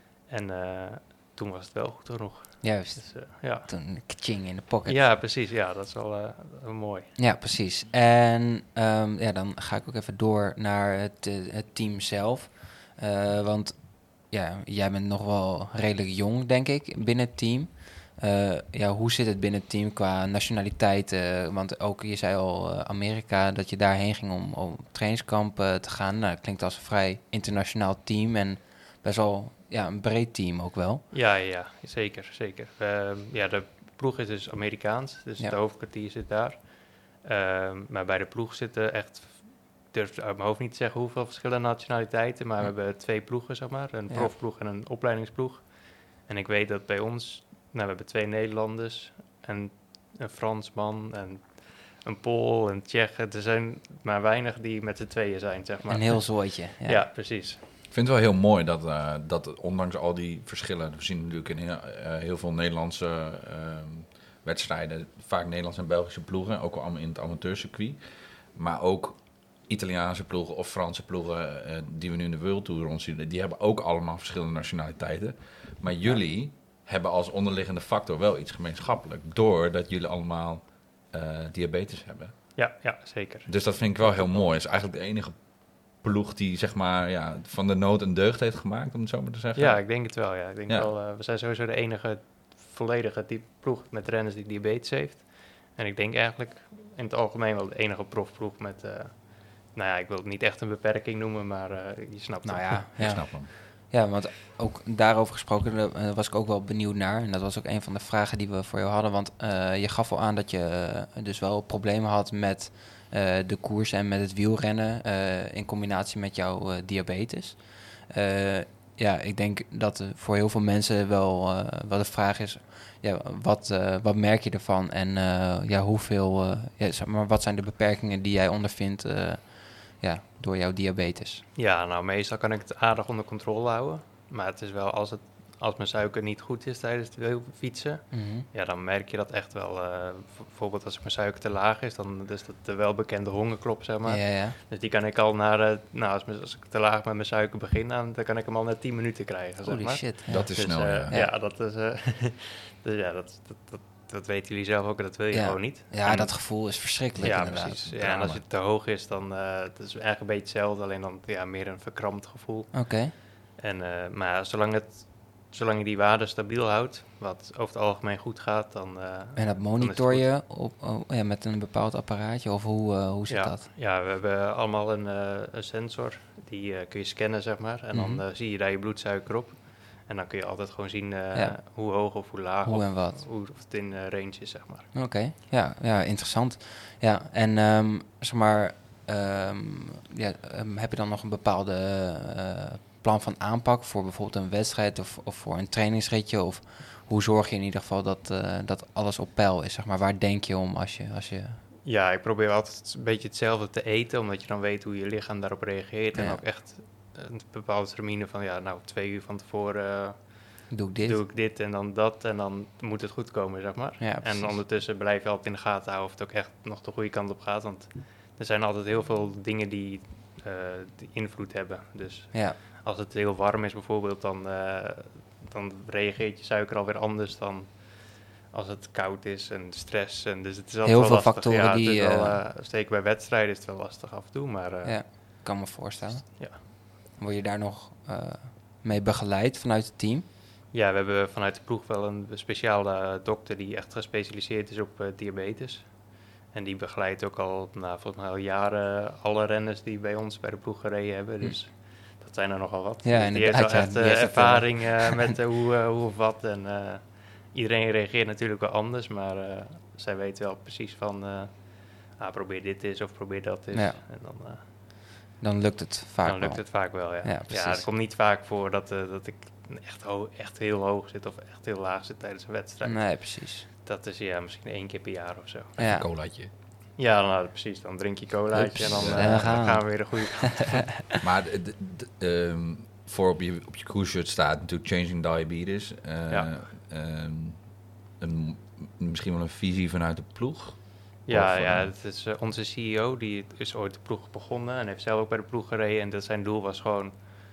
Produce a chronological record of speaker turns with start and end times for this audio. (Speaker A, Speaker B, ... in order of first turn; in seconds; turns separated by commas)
Speaker A: 0.3-3.7, Speaker B: 2.6-5.0, Speaker A: 4.9-7.1, Speaker B: 7.2-31.1, Speaker A: 31.1-57.6, Speaker B: 55.9-57.1, Speaker C: 57.9-68.0, Speaker C: 68.5-82.3, Speaker A: 82.6-84.5, Speaker C: 83.5-89.9, Speaker A: 89.6-103.2, Speaker B: 102.4-131.4, Speaker C: 103.0-103.5, Speaker A: 131.6-170.3, Speaker B: 138.1-138.5, Speaker B: 144.1-144.6, Speaker B: 149.6-151.3, Speaker C: 150.3-151.2, Speaker B: 155.3-157.8, Speaker C: 157.2-158.4, Speaker B: 162.7-163.1, Speaker B: 169.4-173.6, Speaker A: 173.3-184.9, Speaker B: 177.9-178.2, Speaker B: 182.7-183.2, Speaker B: 184.9-201.6, Speaker A: 201.8-235.4, Speaker B: 206.1-206.4, Speaker B: 210.7-211.2, Speaker B: 214.0-214.6, Speaker B: 230.8-232.4, Speaker B: 234.8-240.3, Speaker A: 240.7-264.6, Speaker B: 253.0-255.4, Speaker B: 263.7-264.0, Speaker B: 265.4-267.9, Speaker A: 266.2-275.8, Speaker B: 272.8-273.7, Speaker B: 275.8-276.1, Speaker C: 275.8-276.5, Speaker A: 277.0-281.0, Speaker B: 278.5-281.2, Speaker C: 278.9-279.6, Speaker C: 281.2-287.7, Speaker C: 288.2-291.9, Speaker A: 291.3-297.1